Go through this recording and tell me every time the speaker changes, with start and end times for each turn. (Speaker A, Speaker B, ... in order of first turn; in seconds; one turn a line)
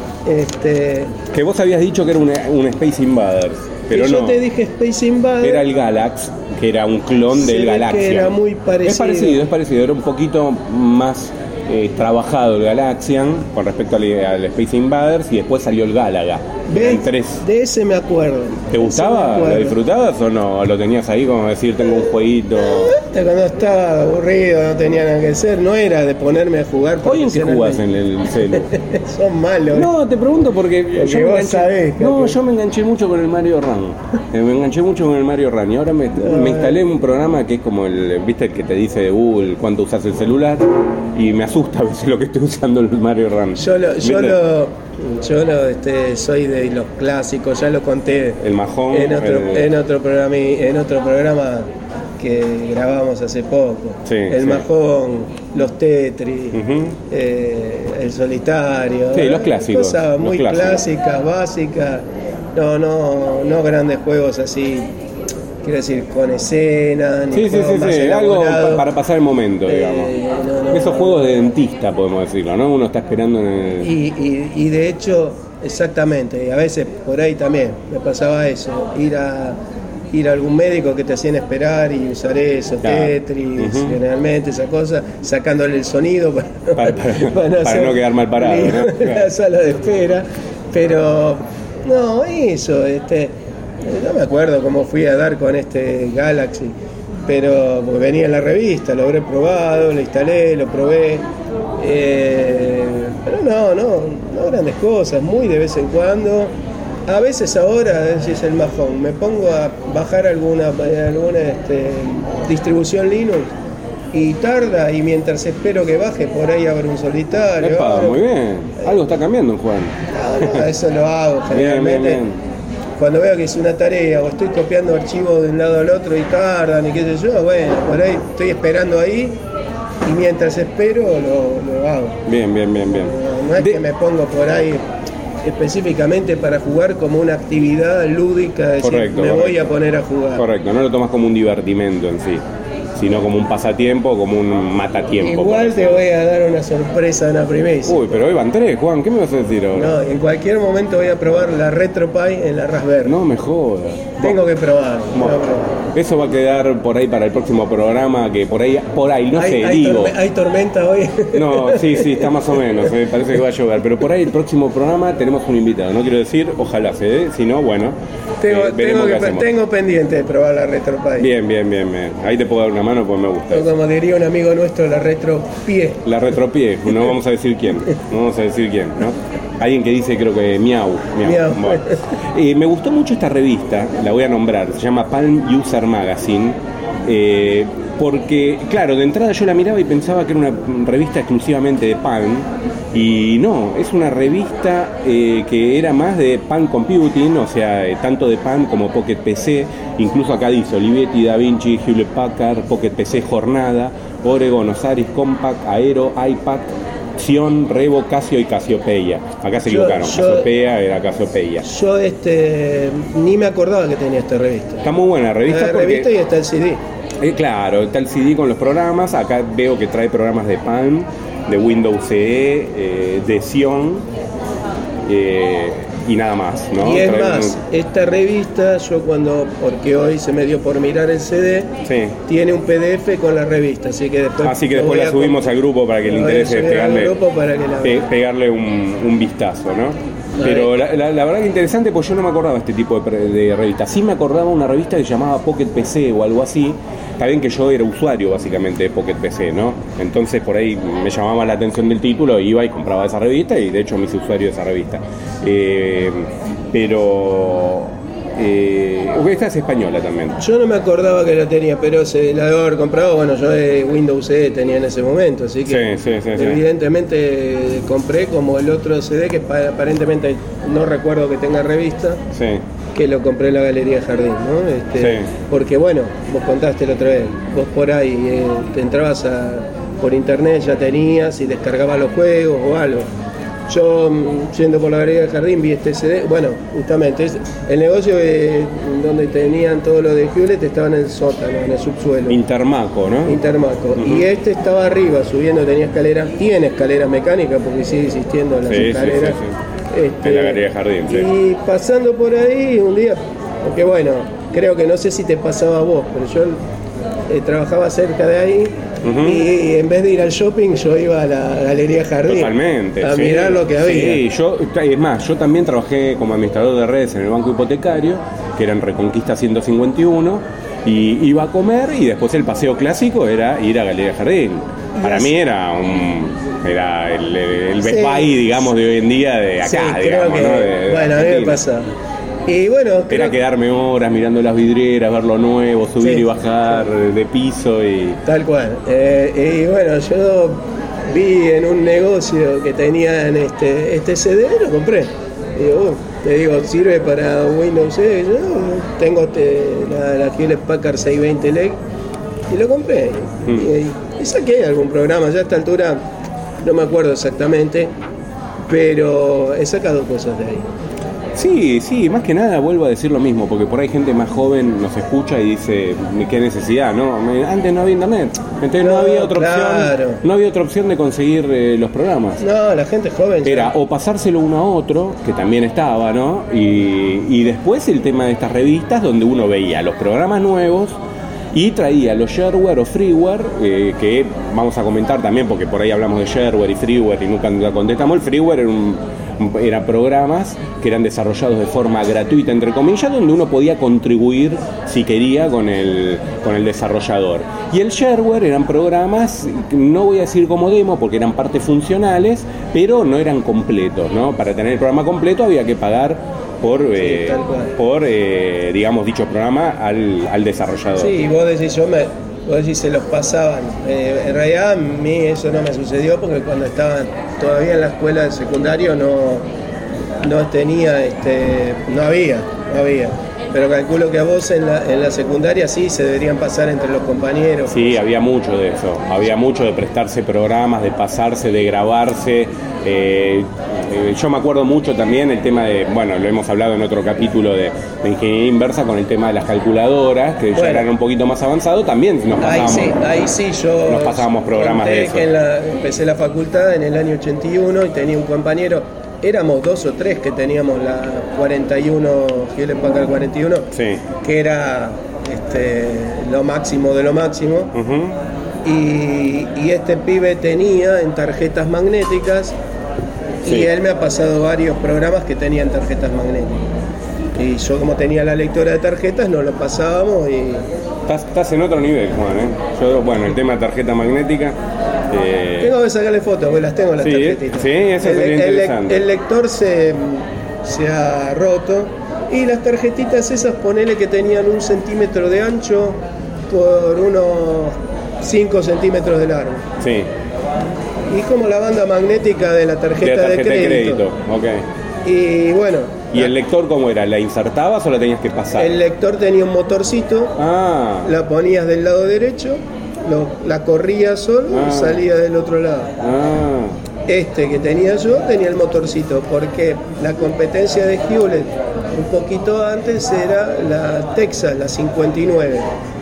Speaker A: 0.2-1.1
Speaker B: 1.3-4.4
Speaker A: 3.9-5.6
Speaker B: 5.4-17.4
Speaker A: 7.3-9.4
Speaker A: 16.7-19.8
Speaker B: 18.7-22.9
Speaker A: 22.6-27.8
Speaker B: 27.0-28.7
Speaker A: 28.5-29.9
Speaker B: 29.7-44.4
Speaker A: 30.9-32.4
Speaker A: 36.2-36.8
Speaker A: 43.6-48.4
Speaker B: 48.4-49.7
Speaker A: 48.9-64.9
Speaker B: 54.0-54.6
Speaker B: 56.5-57.0
Speaker B: 59.1-60.8
Speaker A: 65.6-68.9
Speaker B: 67.3-70.1
Speaker A: 69.7-71.3
Speaker B: 70.7-73.9
Speaker A: 73.8-79.6
Speaker A: 80.1-96.7
Speaker B: 82.8-84.0
Speaker B: 86.7-89.3
Speaker A: 97.3-101.2
Speaker A: 101.8-106.5
Speaker A: 107.1-113.5
Speaker A: 114.1-118.2
Speaker B: 117.6-120.6
Speaker A: 120.1-122.2
Speaker B: 121.5-122.4
Speaker A: 123.0-129.4
Speaker A: 130.0-132.2
Speaker B: 132.2-133.8
Speaker A: 133.0-134.8
Speaker A: 135.4-140.4
Speaker B: 138.8-139.7
Speaker B: 140.3-142.4
Speaker B: 142.9-146.0
Speaker A: 145.2-148.1
Speaker B: 147.8-149.9
Speaker A: 149.7-153.2
Speaker B: 153.0-154.4
Speaker A: 154.2-155.8
Speaker B: 155.9-160.1
Speaker A: 159.4-162.9
Speaker B: 161.3-169.5
Speaker A: 168.4-171.3
Speaker B: 171.2-173.7
Speaker A: 173.5-176.0
Speaker B: 176.0-211.6
Speaker A: 181.2-182.0
Speaker A: 209.7-210.5
Speaker A: 211.6-214.8
Speaker B: 214.8-216.1
Speaker A: 215.4-216.8
Speaker B: 217.2-224.1
Speaker B: 225.1-227.6
Speaker A: 226.8-231.7
Speaker B: 231.8-232.2
Speaker A: 232.2-235.5
Speaker B: 234.4-237.1
Speaker A: 236.0-238.1
Speaker B: 237.8-260.4
Speaker A: 240.4-240.7
Speaker A: 260.4-272.2
Speaker B: 265.7-266.6
Speaker B: 272.3-272.6
Speaker A: 272.9-283.1
Speaker B: 275.0-275.3
Speaker A: 283.7-292.4
Speaker B: 292.3-293.4
Speaker A: 293.2-299.4
Speaker B: 293.9-294.2
Speaker B: 298.7-299.5
Speaker A: 299.9-306.6
Speaker B: 300.2-301.3
Speaker A: 307.3-314.2
Speaker B: 309.0-309.4
Speaker B: 312.2-331.6
Speaker A: 325.0-325.4
Speaker A: 327.8-328.6
Speaker A: 329.6-331.9
Speaker A: 332.4-333.4
Speaker B: 333.1-338.2
Speaker A: 336.0-336.3
Speaker A: 338.2-351.8
Speaker A: 352.5-356.0
Speaker B: 353.4-353.7
Speaker A: 356.6-357.9
Speaker A: 358.7-360.7
Speaker B: 361.3-372.4
Speaker A: 368.8-370.2
Speaker A: 372.4-373.7
Speaker B: 373.4-381.0
Speaker B: 381.5-411.1
Speaker A: 406.9-407.7
Speaker A: 411.0-419.4
Speaker A: 420.2-428.0
Speaker B: 427.7-443.2
Speaker A: 440.5-440.9
Speaker A: 442.4-453.7
Speaker B: 443.9-445.3
Speaker B: 453.7-454.0
Speaker A: 454.2-457.7
Speaker B: 457.7-458.1
Speaker A: 458.6-462.6
Speaker A: 463.4-466.6
Speaker A: 467.4-470.6
Speaker B: 471.1-474.6
Speaker B: 475.1-475.7
Speaker A: 475.6-489.6
Speaker B: 477.0-479.0
Speaker B: 489.8-490.1
Speaker A: 491.1-494.0
Speaker B: 493.0-494.6
Speaker A: 495.0-496.3
Speaker B: 496.1-498.7
Speaker A: 498.6-500.3
Speaker B: 500.4-501.1
Speaker A: 501.0-505.9
Speaker B: 504.5-505.0
Speaker B: 506.0-506.8
Speaker A: 507.1-515.7